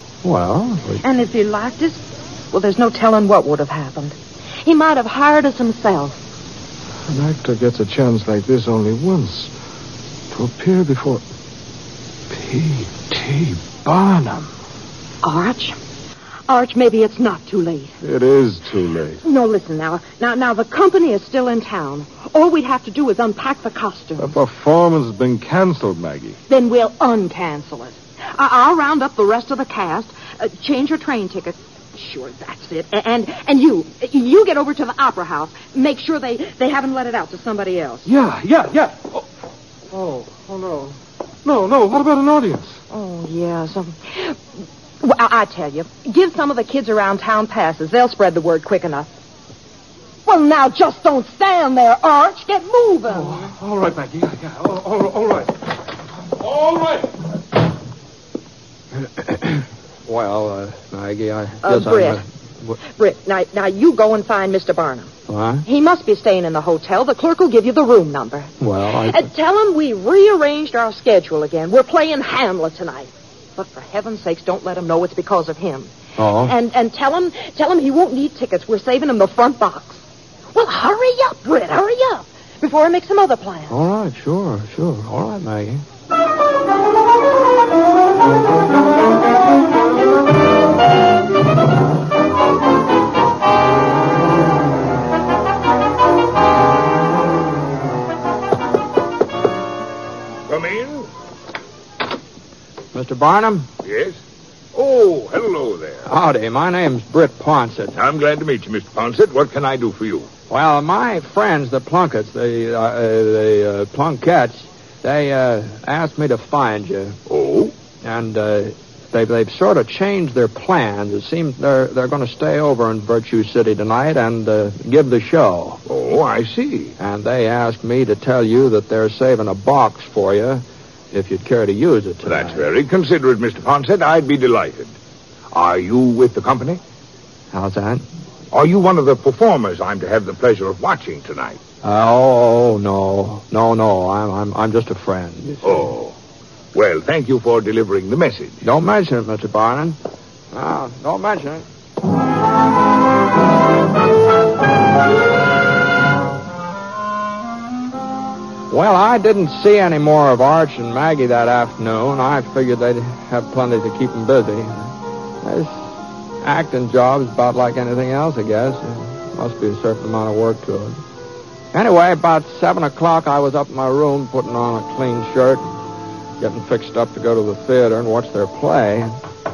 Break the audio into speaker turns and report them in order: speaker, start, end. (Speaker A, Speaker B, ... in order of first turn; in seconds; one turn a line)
Speaker A: 0.2-1.0
Speaker B: 1.0-2.0
Speaker B: 2.5-6.2
Speaker C: 7.1-9.5
Speaker C: 10.3-11.2
Speaker C: 12.3-14.5
Speaker B: 15.2-15.8
Speaker B: 16.5-17.9
Speaker C: 18.0-19.2
Speaker B: 19.2-24.4
Speaker C: 24.2-26.4
Speaker B: 26.5-38.1
Speaker C: 38.0-39.2
Speaker C: 39.9-42.8
Speaker B: 42.9-44.4
Speaker B: 45.0-49.1
Speaker B: 50.3-53.5
Speaker C: 53.1-55.6
Speaker C: 56.3-57.1
Speaker A: 59.0-62.8
Speaker B: 61.6-62.2
Speaker B: 63.0-65.1
Speaker A: 65.3-65.7
Speaker B: 65.7-68.5
Speaker A: 68.6-69.3
Speaker B: 69.0-83.8
Speaker A: 76.2-76.5
Speaker A: 83.7-85.8
Speaker D: 100.5-101.1
Speaker A: 102.9-103.7
Speaker D: 103.8-104.2
Speaker D: 104.7-106.1
Speaker A: 106.0-108.0
Speaker D: 107.9-110.3
Speaker A: 110.5-117.2
Speaker D: 117.3-117.7
Speaker A: 118.0-125.8
Speaker D: 125.9-127.0
Speaker A: 127.0-132.7
Speaker D: 132.2-134.9
Speaker D: 135.5-136.8
Speaker A: 137.5-138.0
Speaker D: 138.5-141.6
Speaker A: 141.8-145.9
Speaker D: 145.6-146.2
Speaker D: 146.7-148.6
Speaker A: 148.6-150.0
Speaker A: 150.5-151.7
Speaker A: 158.7-171.0
Speaker A: 171.7-175.8
Speaker A: 176.4-179.1